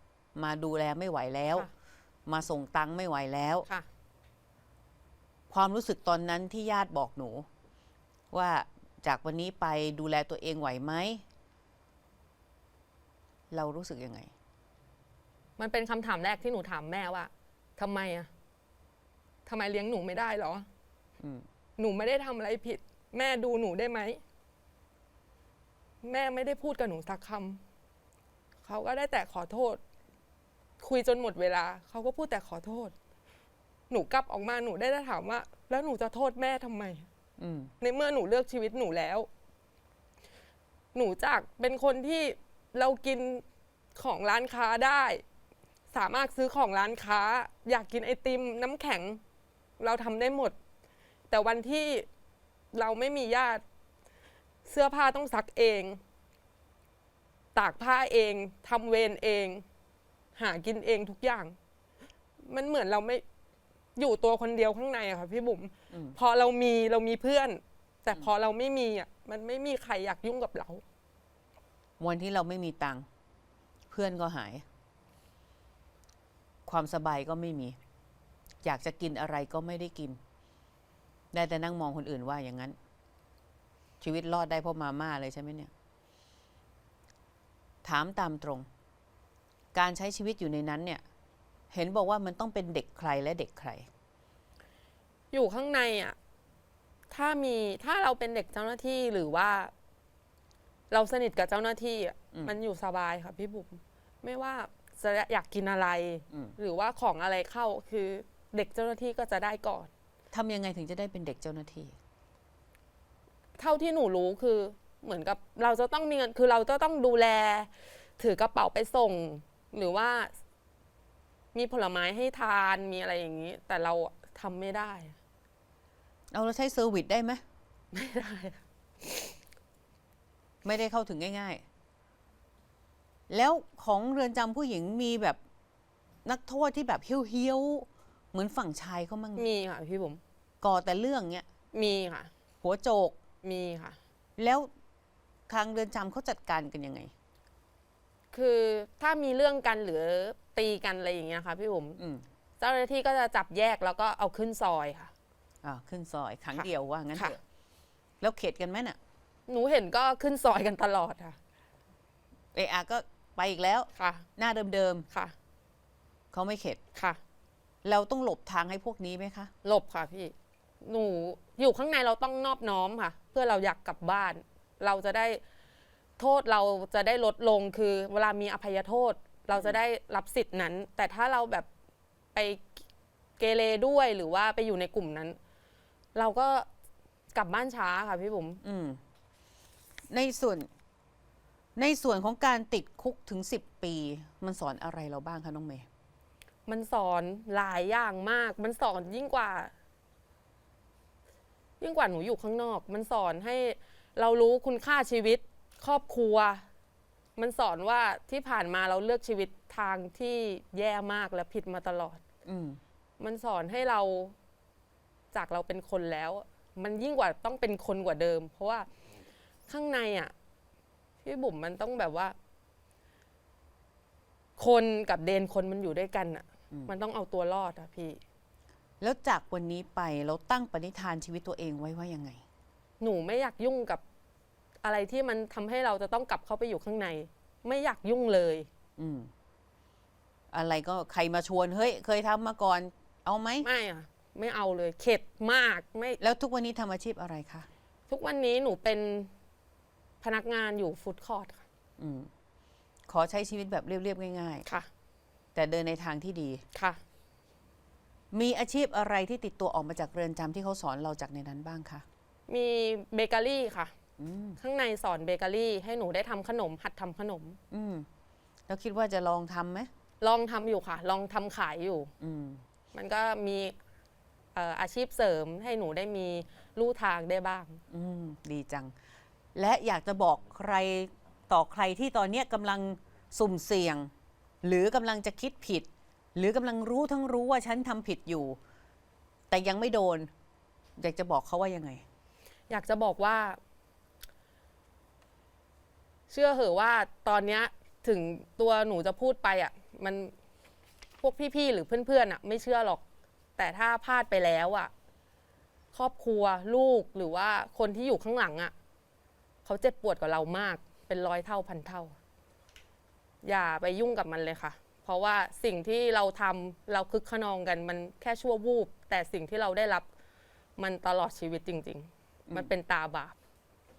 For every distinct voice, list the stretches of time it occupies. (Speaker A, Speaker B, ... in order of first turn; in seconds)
Speaker A: 0.3-1.7, 2.3-3.7, 5.5-7.5, 8.3-11.2, 13.5-14.3, 21.2-21.4, 37.4-37.7, 65.9-66.2, 72.0-73.0, 73.9-74.6, 76.7-77.8, 78.6-80.2, 81.3-82.8, 84.0-85.7, 87.8-88.7, 89.7-91.0, 91.7-93.9, 106.3-106.5, 110.3-112.0, 126.3-127.4, 130.6-131.6, 133.3-135.4, 136.2-139.4, 140.6-141.4, 142.6-143.2, 144.4-144.7, 145.5-147.1, 152.0-152.2, 155.6-157.4, 158.2-159.0, 162.5-165.1, 166.3-166.8, 167.8-169.5, 188.6-189.0, 190.1-190.7, 191.8-195.8, 212.4-212.8, 229.0-232.4, 239.0-239.3, 240.5-243.7, 246.2-247.7, 252.0-252.3, 253.1-254.7, 255.5-256.6, 258.3-262.0, 264.2-264.6, 267.7-268.1, 268.7-269.9, 272.2-272.6, 277.9-278.9, 279.5-284.1, 284.6-288.6, 289.5-290.3, 291.0-292.0
Speaker B: 15.6-18.3, 19.4-20.7, 21.8-24.2, 26.0-27.6, 28.6-29.8, 30.8-32.9, 33.9-37.0, 37.8-39.3, 40.9-43.4, 43.9-45.2, 45.9-49.2, 49.8-50.5, 51.3-52.1, 52.7-53.6, 54.6-56.0, 57.5-59.6, 60.4-61.5, 62.4-63.2, 64.0-70.8, 95.3-96.2, 97.1-99.7, 100.9-109.9, 113.6-120.3, 121.5-125.1, 127.9-129.3, 139.3-140.2, 141.7-142.3, 143.4-144.0, 148.3-152.0, 152.6-155.1, 156.5-157.3, 159.5-161.4, 163.9-164.2, 169.6-175.4, 176.2-181.7, 182.3-182.8, 183.4-185.4, 186.1-186.7, 187.3-188.6, 196.7-199.7, 201.8-206.6, 207.4-212.2, 213.2-214.3, 215.3-218.9, 219.7-220.3, 221.2-222.3, 224.6-228.2, 233.0-234.0, 234.8-238.7, 243.6-246.2, 248.1-249.3, 250.2-251.6, 256.7-257.0, 262.5-263.9, 264.6-267.6, 270.2-272.1, 272.9-273.8, 274.5-277.8, 292.7-293.6, 296.3-300.3, 301.2-303.0, 303.6-304.9, 305.9-308.7, 309.6-312.1, 313.4-320.1, 320.8-323.4